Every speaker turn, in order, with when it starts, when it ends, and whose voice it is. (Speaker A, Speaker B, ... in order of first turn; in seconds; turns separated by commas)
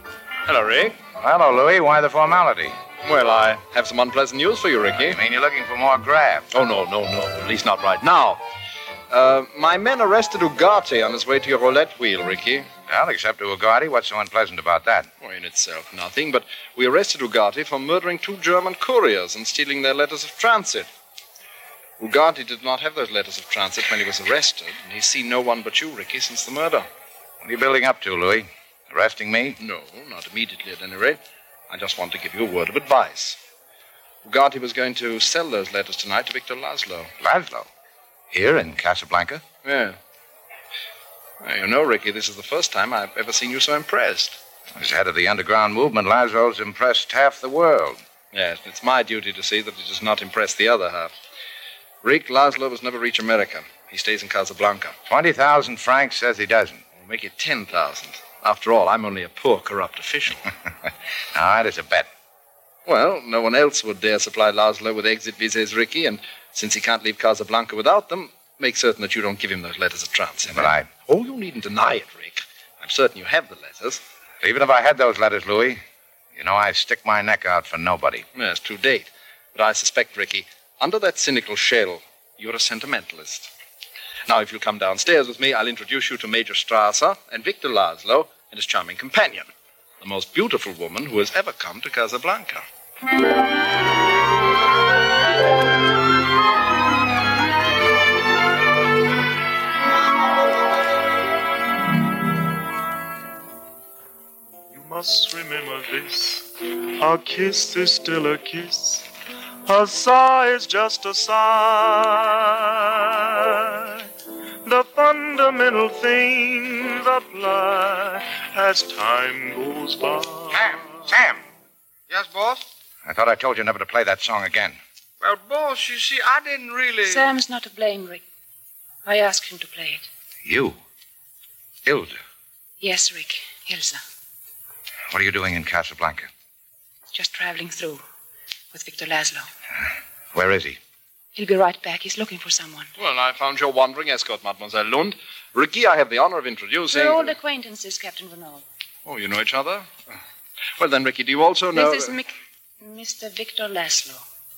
Speaker A: 1.2-2.8, Speaker B: 3.0-5.2, Speaker A: 5.0-6.5, Speaker B: 6.5-8.4, Speaker B: 9.1-12.7, Speaker A: 12.9-15.1, Speaker B: 15.2-20.9, Speaker B: 22.0-26.9, Speaker A: 27.4-29.6, Speaker B: 29.6-33.4, Speaker B: 34.2-37.1, Speaker A: 37.2-37.7, Speaker A: 38.3-39.4, Speaker B: 39.6-40.0, Speaker B: 41.4-44.4, Speaker A: 44.8-48.0, Speaker B: 48.3-51.1, Speaker B: 52.0-55.0, Speaker A: 55.1-56.8, Speaker B: 57.0-60.4, Speaker A: 61.3-62.1, Speaker B: 62.9-74.0, Speaker A: 70.5-70.9, Speaker A: 74.4-75.8, Speaker A: 76.3-78.2, Speaker B: 78.3-83.5, Speaker B: 84.3-89.5, Speaker B: 90.0-92.7, Speaker C: 104.7-106.5, Speaker C: 107.0-109.1, Speaker C: 109.7-114.0, Speaker C: 114.6-121.0, Speaker A: 120.5-121.4, Speaker D: 122.1-122.6, Speaker A: 123.0-124.8, Speaker D: 125.2-127.3, Speaker E: 127.0-128.2, Speaker E: 129.0-130.1, Speaker A: 130.4-130.8, Speaker A: 131.8-132.2, Speaker E: 132.8-134.0, Speaker A: 135.1-136.3, Speaker E: 137.1-138.0, Speaker E: 138.7-139.5, Speaker A: 140.3-140.8, Speaker E: 141.3-142.9, Speaker B: 143.0-147.3, Speaker E: 146.9-148.6, Speaker B: 149.0-149.9, Speaker B: 150.8-152.2, Speaker E: 151.7-154.2